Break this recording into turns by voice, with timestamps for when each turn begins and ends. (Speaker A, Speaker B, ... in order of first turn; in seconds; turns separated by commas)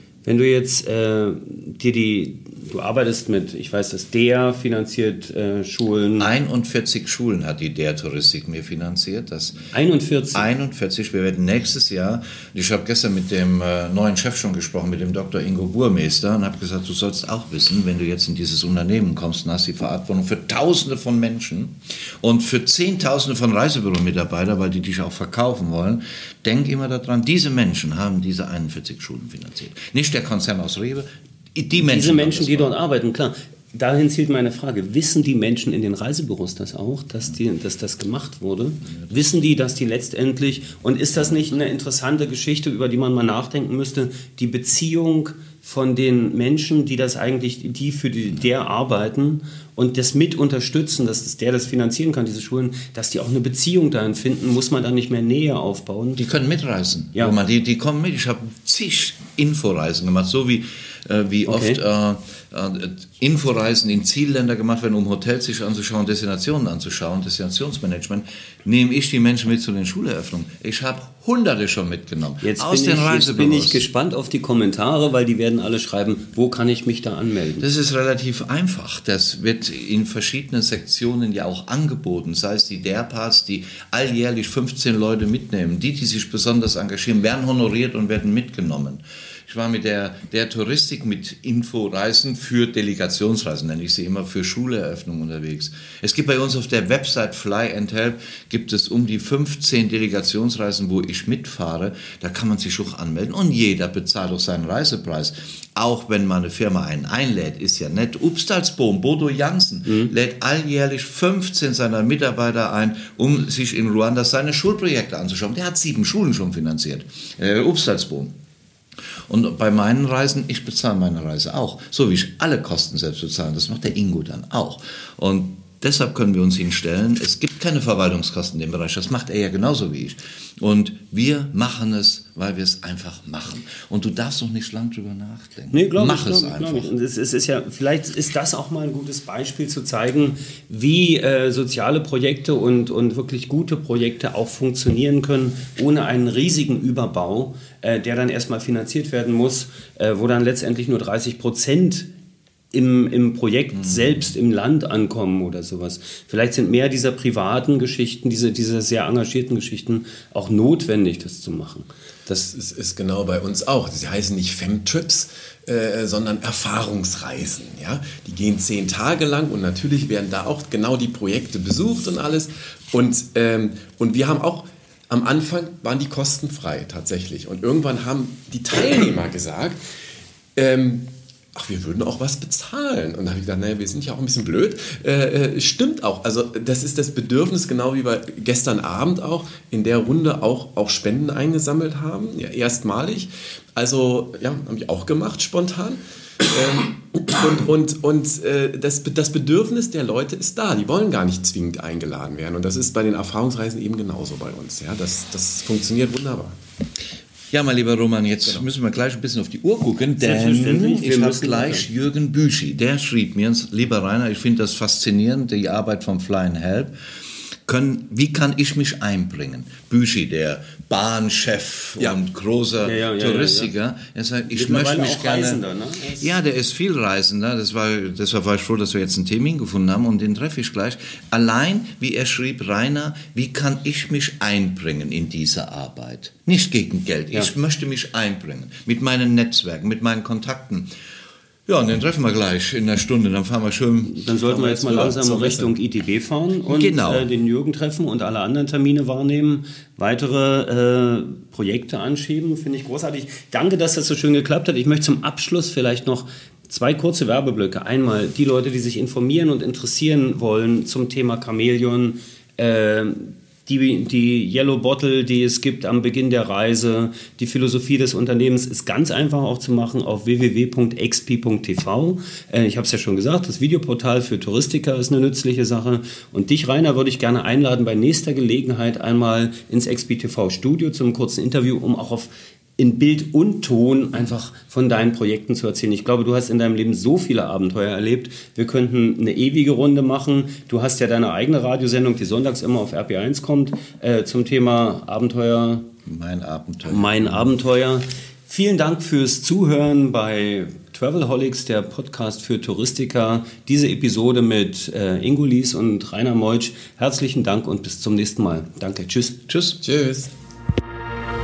Speaker A: 0.2-6.3, Speaker B: 6.2-9.7, Speaker A: 9.7-10.5, Speaker B: 10.3-32.7, Speaker A: 31.8-56.2, Speaker B: 56.2-73.8, Speaker A: 61.5-61.8, Speaker A: 72.4-77.6, Speaker B: 77.6-118.3, Speaker B: 119.3-136.9, Speaker A: 135.7-152.1, Speaker A: 152.7-162.5, Speaker B: 153.8-154.3, Speaker C: 162.5-179.8, Speaker C: 180.5-206.6, Speaker B: 207.5-216.9, Speaker A: 210.2-211.9, Speaker B: 217.7-225.6, Speaker A: 222.8-223.7, Speaker A: 224.5-226.3, Speaker B: 226.2-240.9, Speaker B: 241.7-244.3, Speaker A: 244.1-295.8, Speaker C: 244.4-245.7, Speaker B: 246.7-247.3, Speaker B: 296.1-297.5, Speaker A: 296.9-309.4, Speaker B: 309.5-309.8, Speaker C: 309.8-310.3